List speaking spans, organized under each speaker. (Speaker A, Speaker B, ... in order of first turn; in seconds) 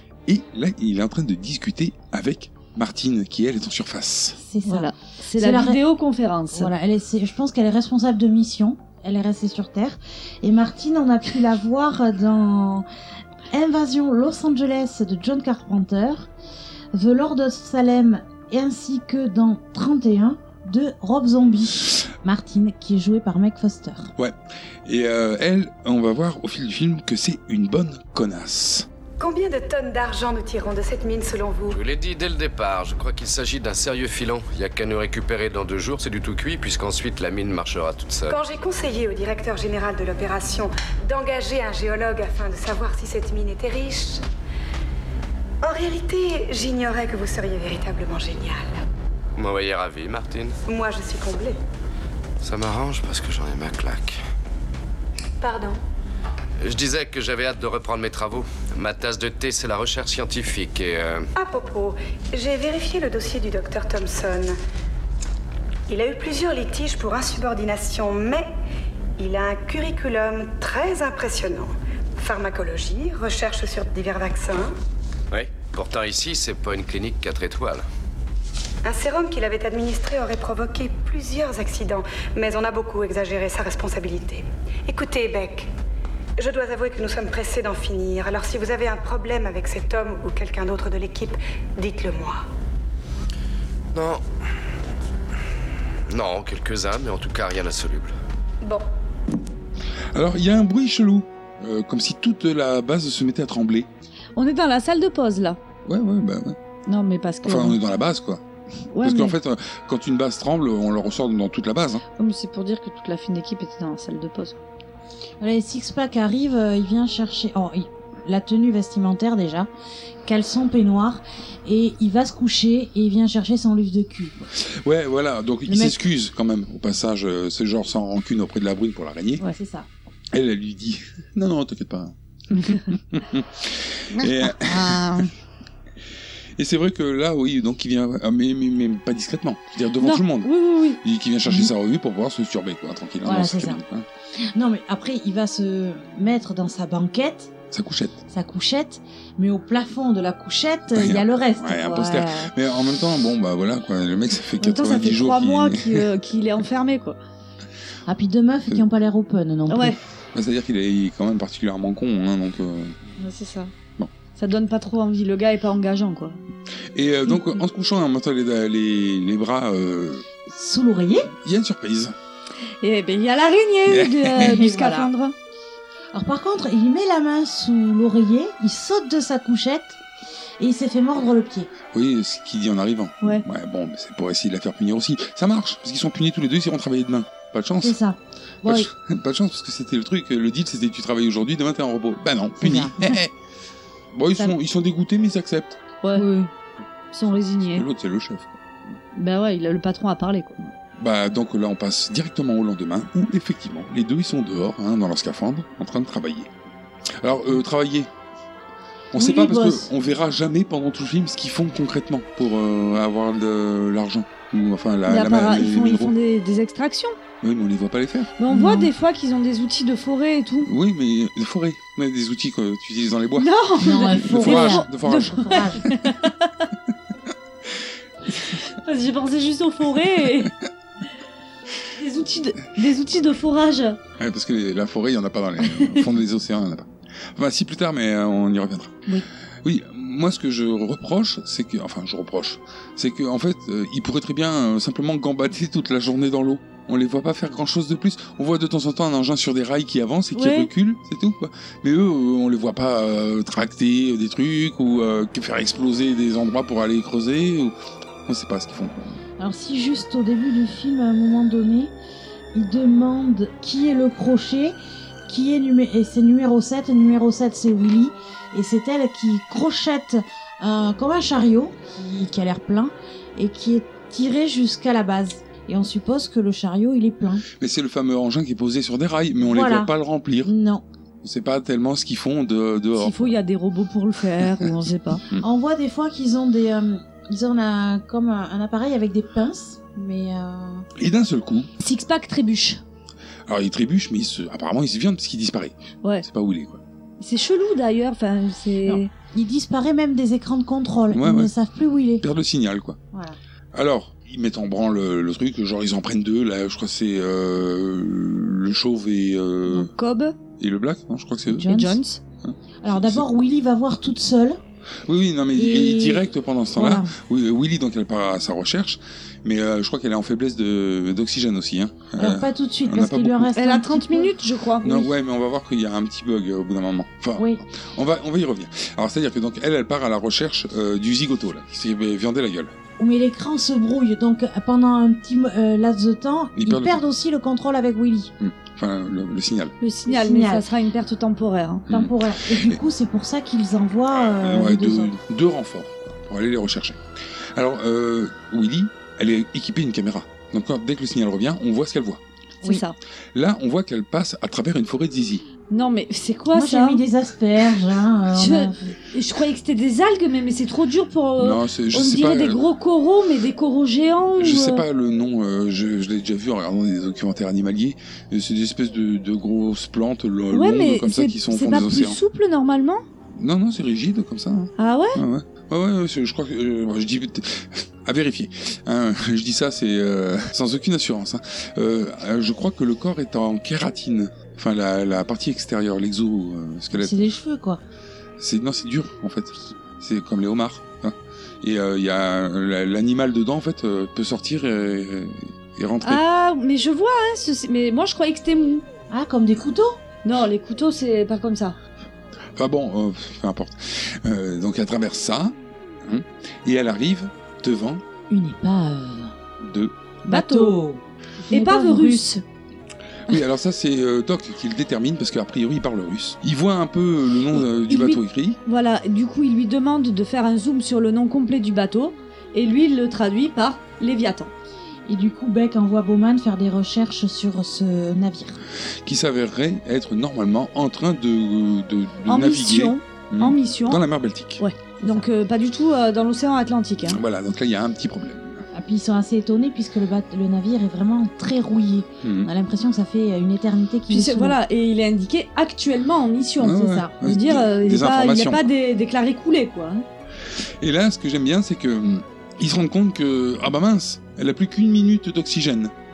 Speaker A: 0.3-4.4, 24.2-28.9, 100.1-103.9, 105.8-106.6, 107.4-108.4, 109.0-112.0, 124.5-129.4, 130.3-135.1, 136.6-144.1, 147.7-148.2, 150.9-156.1, 160.3-163.0, 166.9-170.3, 171.4-172.1, 173.9-174.6, 181.9-188.0, 188.6-193.3, 194.1-195.8, 197.6-198.6, 200.9-206.5, 207.2-208.1, 209.1-216.1, 217.4-218.3, 220.7-225.7, 234.2-239.0, 239.6-257.7, 258.3-259.2, 277.6-280.5, 281.2-283.4, 290.9-291.7, 293.5-296.8, 301.1-301.5, 302.2-303.0, 303.7-309.9, 310.6-311.7, 312.4-313.2, 315.1-323.5, 324.8-332.7, 336.6-337.0, 338.4-339.7, 341.9-342.8, 344.1-347.0, 347.6-352.2, 353.3-355.4, 361.4-362.6, 364.4-372.2, 373.4-387.2, 388.4-396.2, 402.6-408.0, 409.6-409.9, 413.3-418.6, 429.1-434.6, 437.1-438.6, 442.2-442.5, 446.6-448.7, 450.8-455.9
Speaker B: 4.4-5.8, 6.5-12.9, 13.5-16.3, 16.9-24.1, 115.4-119.7, 120.2-124.4, 125.7-126.0, 129.5-129.9, 143.2-143.8, 144.4-147.5, 148.3-152.5, 158.1-160.0, 170.4-171.3, 174.4-175.1, 176.1-180.0, 180.6-181.7, 187.8-188.9, 192.6-193.0, 196.1-196.5, 209.1-209.9, 218.5-218.9, 223.8-225.9, 259.4-261.9, 262.5-277.4, 279.4-279.9, 280.4-280.9, 285.4-290.9, 298.9-302.2, 303.1-303.4, 311.5-312.0, 312.8-314.6, 315.6-316.2, 316.8-317.1, 322.2-324.3, 327.4-327.6, 333.0-338.3, 340.1-340.6, 341.9-345.1, 356.5-358.9, 386.9-387.8, 399.1-400.0, 408.3-409.4, 410.2-412.3, 425.1-428.6, 435.0-435.3, 438.7-444.6, 446.8-447.1
Speaker C: 4.7-6.7, 104.4-105.6, 106.9-107.8, 108.9-109.4, 112.2-114.6, 134.1-135.3, 140.0-141.0, 154.6-157.2, 159.7-160.0, 163.2-163.7, 164.4-166.4, 172.8-175.3, 196.0-196.3, 197.1-197.9, 199.1-200.6, 215.1-217.2, 218.4-220.7, 223.4-226.7, 228.5-230.5, 231.9-234.0, 235.8-236.0, 250.3-250.7, 282.9-285.2, 291.8-292.8, 297.2-299.1, 309.7-310.4, 311.7-312.2, 323.6-325.1, 339.8-341.9, 352.6-352.9, 355.7-357.0, 358.4-364.8, 370.5-373.0, 374.8-375.2, 396.0-398.9, 400.2-401.8, 410.3-410.8, 411.5-412.4, 417.5-424.5, 432.3-434.0, 434.6-437.2, 444.1-450.1
Speaker D: 29.2-31.8, 38.3-44.2, 45.6-48.8, 50.7-51.6, 55.4-55.8, 61.4-64.6, 65.9-68.5, 69.2-74.7, 78.8-85.7, 86.4-92.4
Speaker E: 31.7-38.4, 49.4-50.6, 52.4-54.2, 56.6-61.3, 75.3-77.8, 93.9-94.2, 96.1-98.2